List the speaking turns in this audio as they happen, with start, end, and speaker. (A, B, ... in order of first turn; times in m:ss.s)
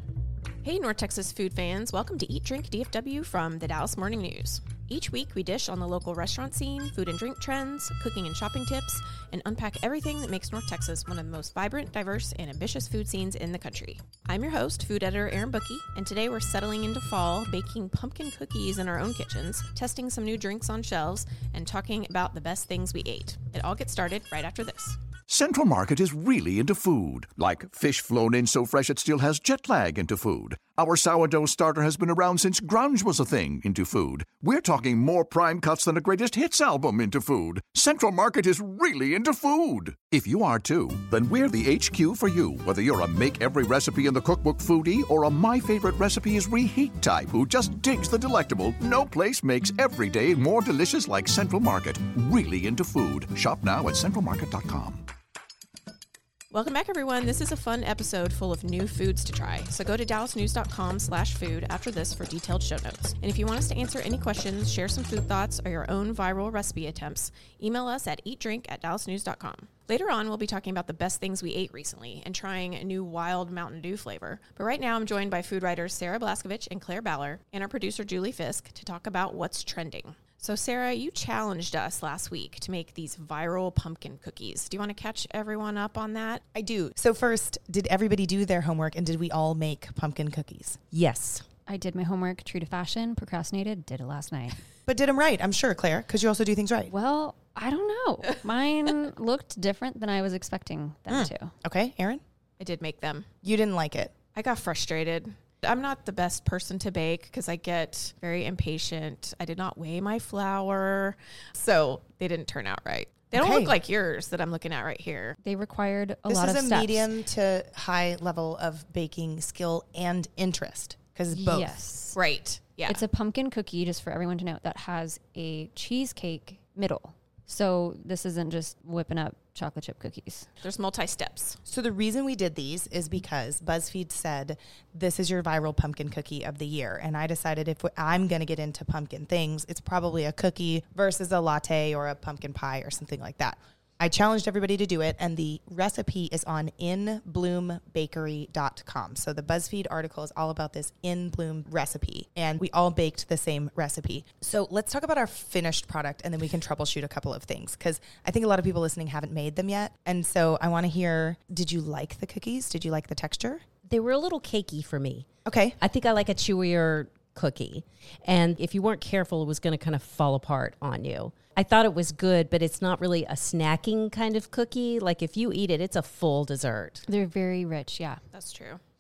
0:00.6-0:25.0 A
0:25.3-0:55.1 B
0:56.5-1:26.4 A
1:26.5-1:30.8 C
1:30.9-1:31.4 D
1:31.7-1:34.6 E
1:34.9-1:36.9 C
1:36.9-1:41.5 E
1:41.2-1:42.2 C
1:42.6-1:43.3 A
1:43.4-1:44.1 C
1:44.4-1:55.4 A
1:53.3-1:53.8 C
1:55.4-1:57.1 E
1:56.3-2:01.8 C
2:01.3-2:02.2 E
2:02.2-2:03.0 A
2:02.9-2:10.5 E
2:10.6-2:11.6 A
2:11.7-2:43.7 C
2:43.8-2:57.0 D
2:45.4-2:45.8 C
2:57.1-2:58.2 E
2:58.3-2:58.8 A